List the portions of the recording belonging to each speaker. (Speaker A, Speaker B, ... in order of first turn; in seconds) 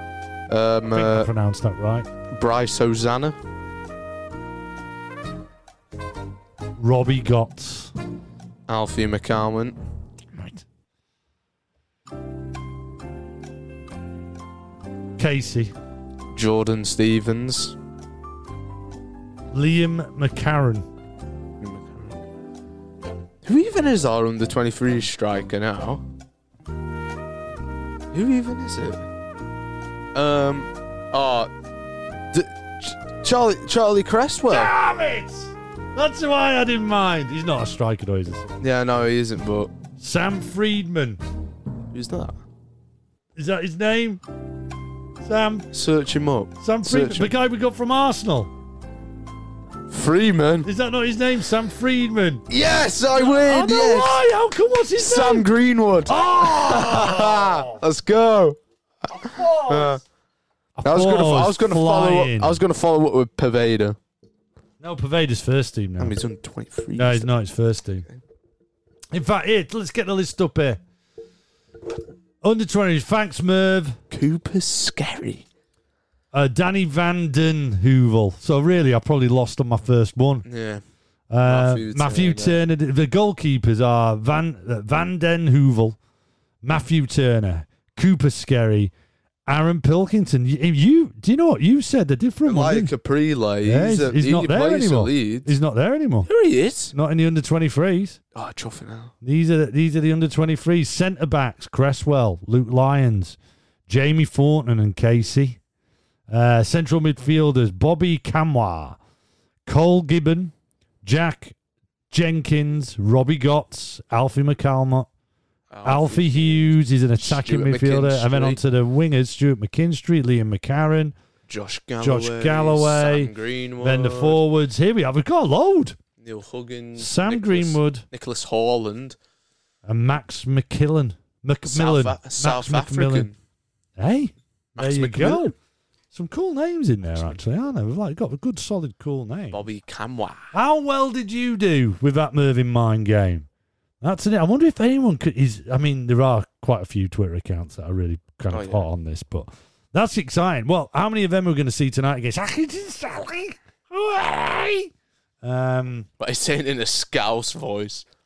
Speaker A: 0.5-1.3, 2.3-3.4, 8.7-9.8, 16.3-17.8, 21.6-22.2, 23.4-26.0, 28.1-29.1, 30.1-31.5, 32.3-34.7, 38.6-39.7, 41.9-42.4, 45.7-47.3, 49.9-50.7, 52.5-54.2, 55.0-58.6, 59.7-60.0, 60.8-64.0, 66.0-67.3, 74.1-75.5, 80.5-80.8, 81.5-82.6, 92.5-95.5, 96.3-96.9, 98.3-99.1, 115.7-118.6, 121.5-124.4, 126.2-129.2, 131.7-133.4, 134.8-135.5, 139.5-140.5, 148.5-148.9, 156.2-158.1
Speaker B: 0.9-2.1, 6.8-7.9, 10.3-10.6, 15.2-15.7, 19.5-20.9, 34.5-38.6, 40.0-41.2, 43.4-44.2, 45.2-45.7, 46.6-48.5, 50.6-52.5, 53.1-55.5, 56.1-57.8, 59.1-60.0, 60.8-62.6, 64.8-66.2, 67.0-68.1, 69.1-70.8, 72.4-74.0, 76.3-80.5, 81.3-86.0, 86.6-88.9, 89.5-92.9, 93.6-96.3, 96.9-98.2, 99.2-105.6, 106.3-109.0, 109.7-110.5, 111.0-111.6, 112.1-115.1, 115.8-121.1, 122.0-126.0, 127.0-128.0, 129.9-133.3, 134.0-135.5, 136.1-139.6, 140.5-143.5, 144.0-154.9, 155.4-156.1